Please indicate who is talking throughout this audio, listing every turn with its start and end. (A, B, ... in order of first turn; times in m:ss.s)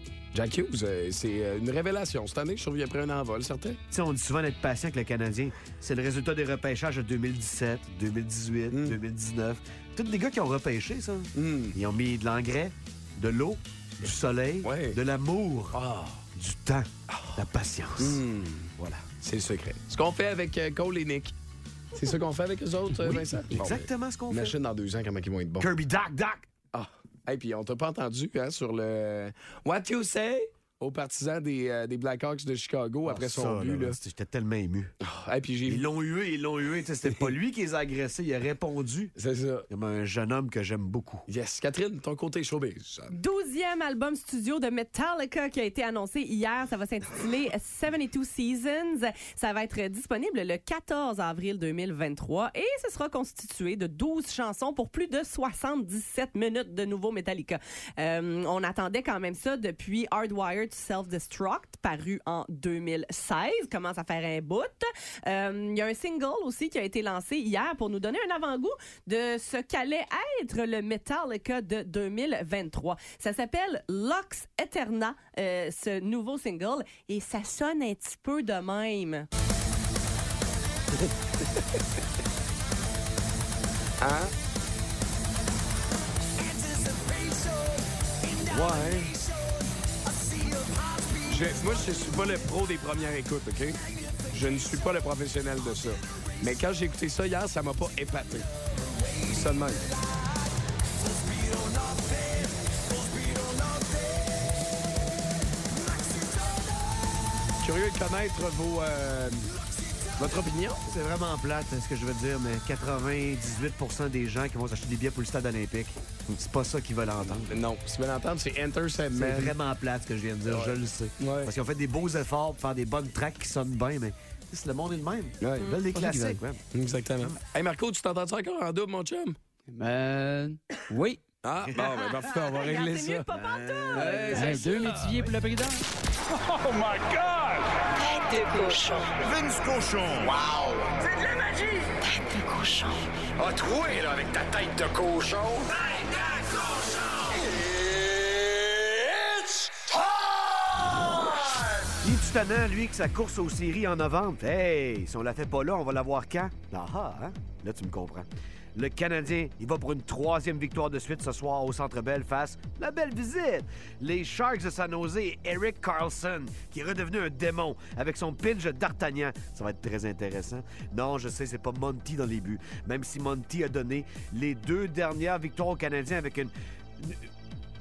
0:00.3-0:03.8 A
0:03.9-0:15.8 B
0:08.7-0:09.0 A
0:11.3-0:11.8 A
0:14.6-0:15.0 A
0:15.7-0:16.2 A
0:16.3-0:18.2 B
0:17.1-0:17.4 A
0:18.0-0:21.3 A
0:18.8-0:19.0 B
0:21.9-0:25.7 A
0:23.0-0:24.6 B
0:25.6-0:26.5 B
0:26.7-0:34.0 A
0:33.0-0:34.9 B
0:35.0-0:35.8 A
0:35.7-0:39.1 B
0:39.2-0:39.7 A
0:39.7-0:41.2 B
0:41.3-0:43.1 A
0:43.1-1:19.3 C
1:24.0-1:24.3 A
1:28.4-1:29.2 A
1:31.2-1:38.5 A
1:39.2-1:39.9 A
1:47.6-1:49.5 A
1:50.2-1:50.8 A
1:50.9-1:57.5 B
1:57.2-1:59.5 A
1:59.1-2:06.6 B
2:00.4-2:01.5 A
2:05.4-2:09.4 A
2:09.7-2:11.2 D
2:11.4-2:13.3 A
2:11.6-2:11.9 B
2:12.3-2:14.6 C
2:13.3-2:14.2 B
2:13.9-2:15.2 A
2:14.3-2:15.8 D
2:16.3-2:17.6 E
2:18.0-2:19.2 F
2:19.2-2:20.8 E
2:22.0-2:23.0 F
2:23.4-2:25.7 E
2:32.0-2:57.2 B